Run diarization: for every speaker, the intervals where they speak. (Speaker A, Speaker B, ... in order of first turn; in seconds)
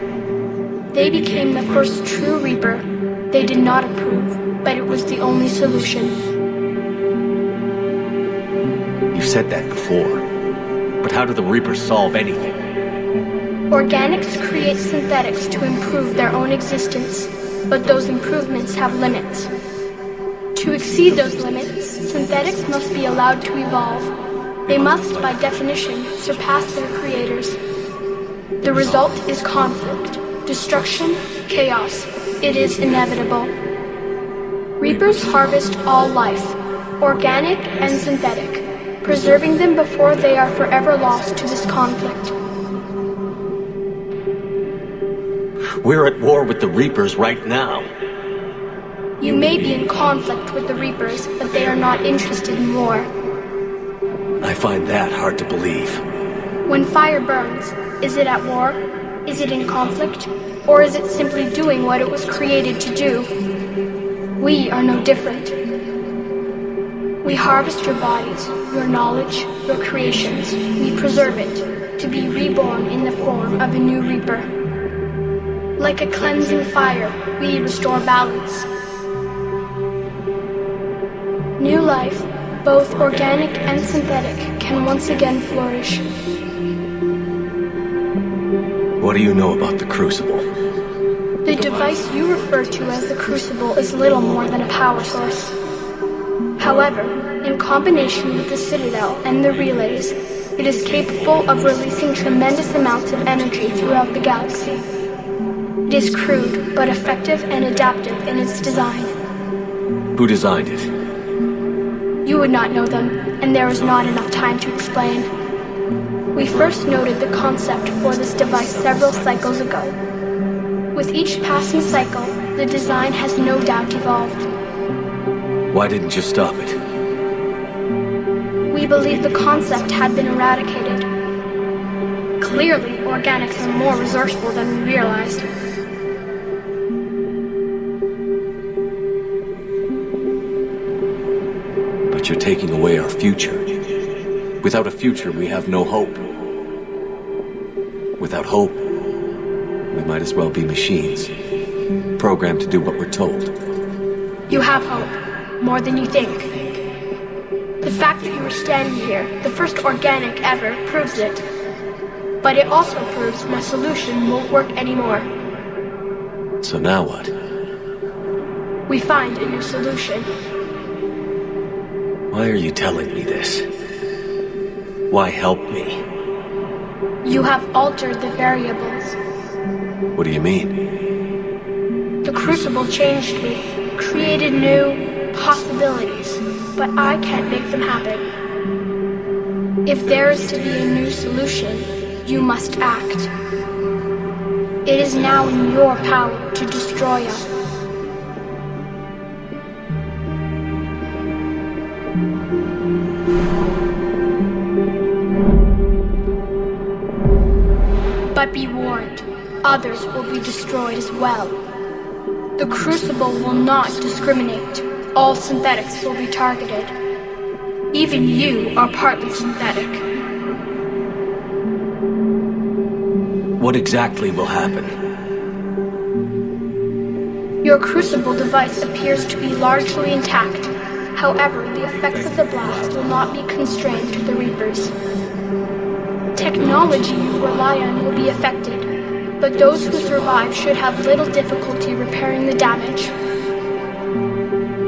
Speaker A: 0.9-6.2, 13.7-19.5, 20.5-24.1, 24.7-27.6, 28.6-33.5, 34.8-42.3, 49.2-53.1, 56.7-63.3, 64.4-65.5, 67.2-74.5, 75.8-78.7, 81.6-86.0, 91.4-95.5, 96.6-104.8, 105.9-109.1, 112.2-115.3, 116.3-120.0, 120.9-124.5, 128.7-131.1, 132.4-135.4, 154.5-156.7, 157.8-161.4, 162.4-165.3, 168.9-170.3, 177.2-179.2, 182.2-188.2, 189.8-193.3, 194.8-197.4, 208.3-211.5, 212.6-216.9, 217.9-220.0, 227.6-234.9, 236.3-238.9, 239.4-243.1
Speaker B: 9.1-10.2, 11.0-12.6, 24.7-25.0, 45.6-47.9, 54.4-56.0, 89.0-90.5, 91.5-91.9, 110.1-110.9, 118.8-119.1, 125.7-126.8, 142.1-143.6, 144.6-146.2, 148.2-148.8, 149.9-151.3, 152.2-153.5, 166.6-167.3, 172.3-173.7, 175.1-176.0, 180.1-180.7, 223.6-224.9